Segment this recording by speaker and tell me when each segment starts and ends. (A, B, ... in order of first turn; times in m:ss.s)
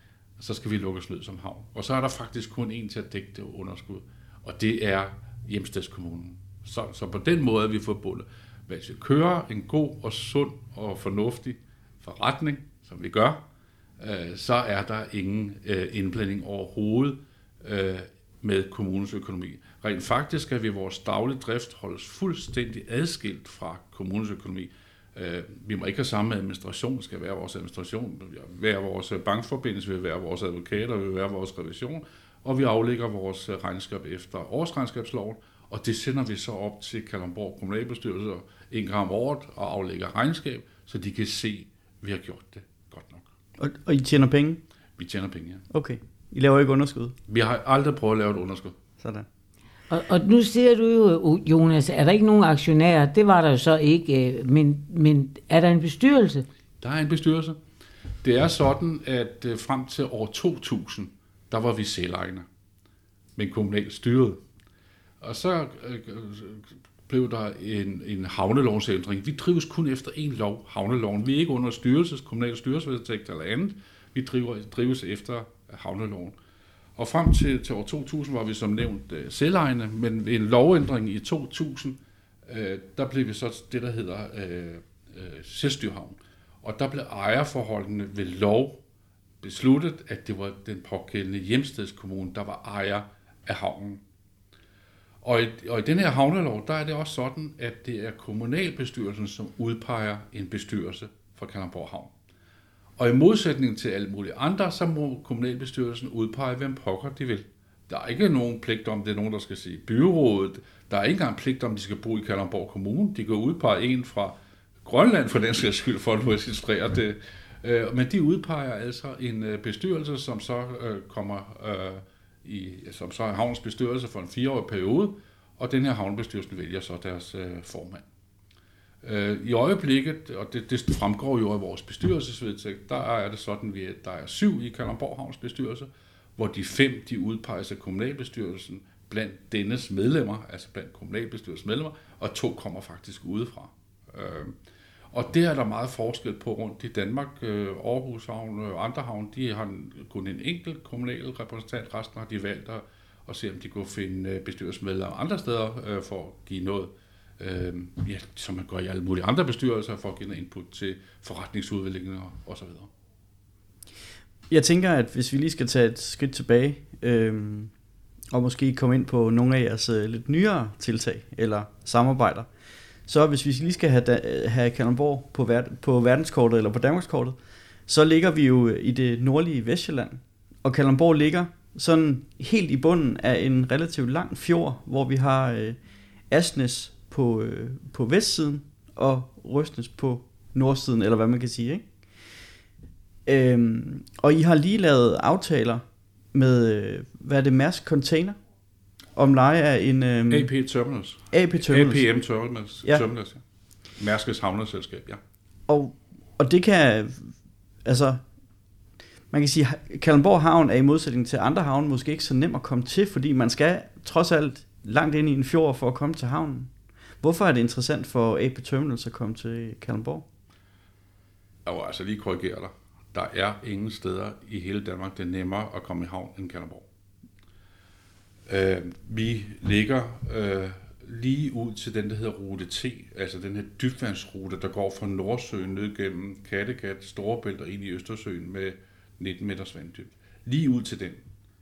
0:00.4-0:13.4 A
0:14.0-0:43.3 A
0:43.6-0:44.6 B
0:45.0-0:45.6 A
0:45.7-0:47.2 B
0:47.3-0:48.8 A
0:49.0-0:49.3 B
0:49.9-0:56.5 C
0:56.8-0:57.6 A
0:58.2-1:02.5 A
1:03.4-1:04.4 A
1:05.2-1:16.4 A
1:17.0-1:28.8 A
1:29.4-1:34.0 A
1:35.2-1:42.1 A
1:43.0-2:08.0 A
2:09.0-2:24.5 A
2:25.1-2:42.9 A
2:44.5-2:47.7 B
2:48.3-2:52.5 B
2:53.1-3:05.8 B
3:06.3-3:11.9 B
3:13.3-3:18.4 B
3:19.2-3:20.5 B
3:20.3-3:23.4 A
3:21.3-3:22.1 B
3:24.0-3:25.2 A
3:25.7-3:28.2 B
3:29.3-3:40.3 B
3:41.7-3:46.8 A
3:48.5-4:01.2 A